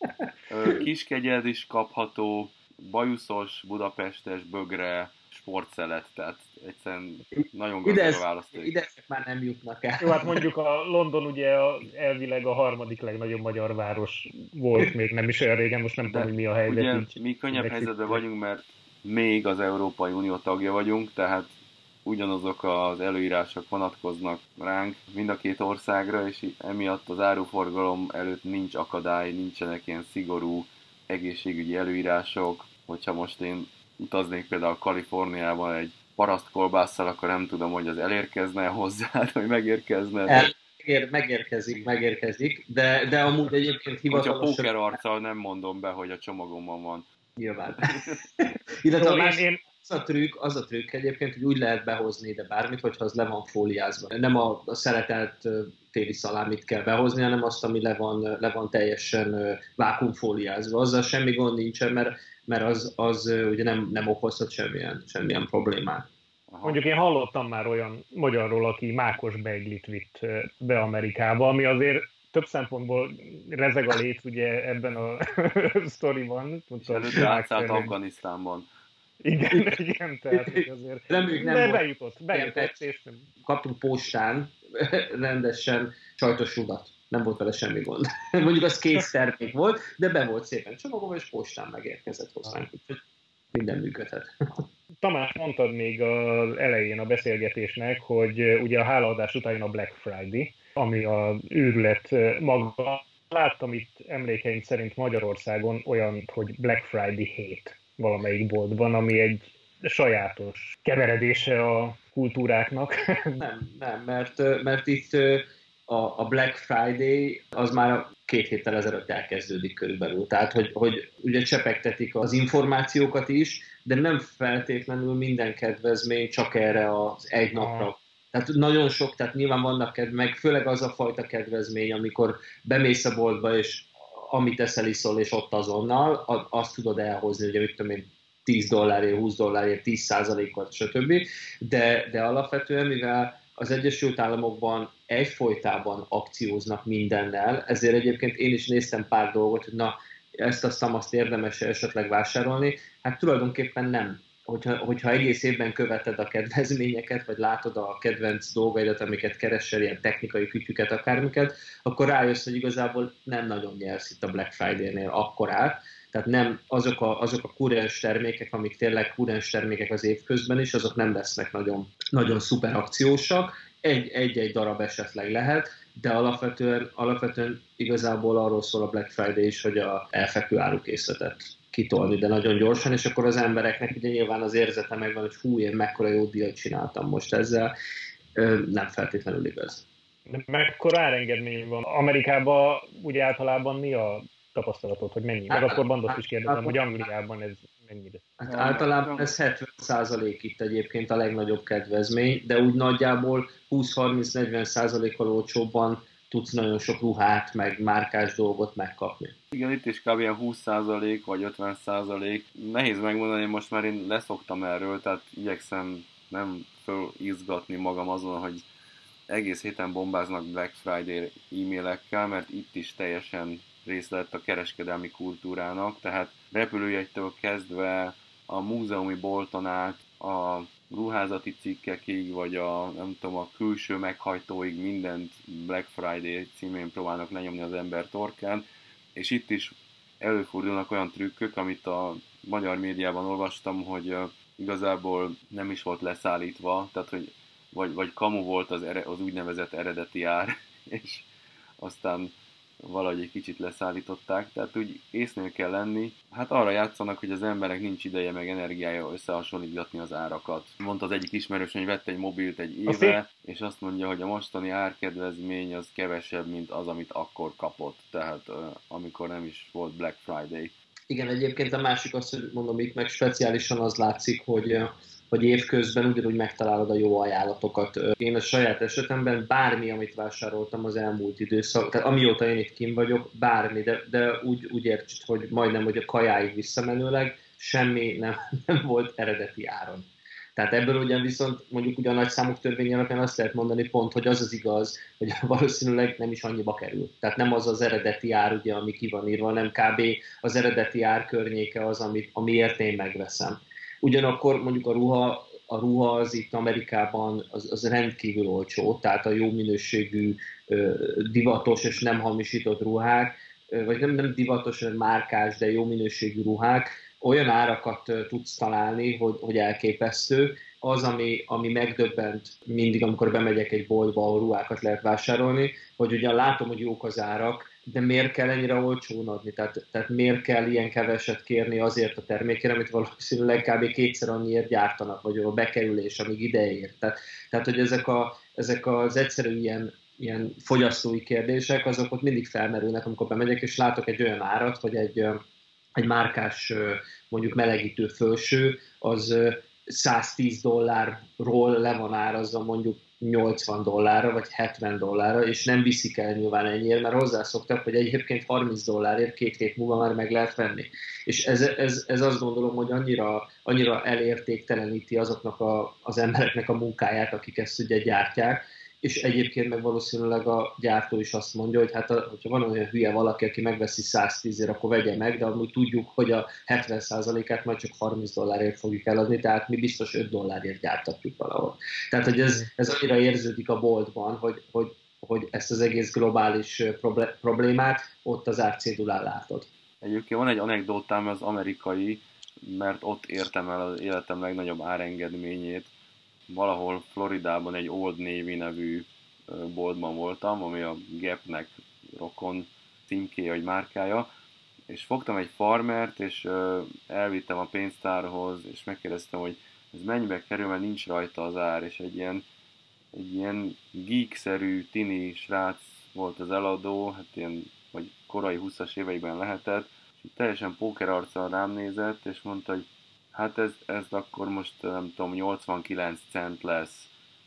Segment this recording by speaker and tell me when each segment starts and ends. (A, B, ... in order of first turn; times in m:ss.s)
0:00.5-0:08.7 A
0:07.8-0:10.4 B
0:10.0-0:18.2 C
0:16.0-0:21.5 A
0:22.0-0:40.5 A
0:40.3-0:44.7 B
0:44.1-0:47.0 A
0:47.4-1:06.1 B
0:48.9-0:49.6 C
1:06.5-1:06.8 A
1:06.6-1:17.9 C
1:16.8-1:18.7 A
1:19.2-1:23.3 C
1:20.3-1:22.8 B
1:23.4-1:33.0 B
1:33.5-1:34.6 B
1:35.0-1:53.4 C
1:53.4-3:07.7 B
2:07.5-2:07.9 C
3:08.4-3:09.8 B
3:10.3-3:18.3 C
3:15.5-3:17.0 B
3:18.4-3:29.3 B
3:18.5-3:19.3 A
3:29.5-3:38.6 A
3:39.3-3:58.6 A
3:59.2-4:11.3 A
4:11.8-4:30.7 A
4:22.9-4:23.2 C
4:31.1-5:45.4 B
5:46.0-6:29.7 B
6:30.0-6:35.9 A
6:36.5-6:44.3 A
6:44.9-6:52.4 A
6:53.1-7:07.1 A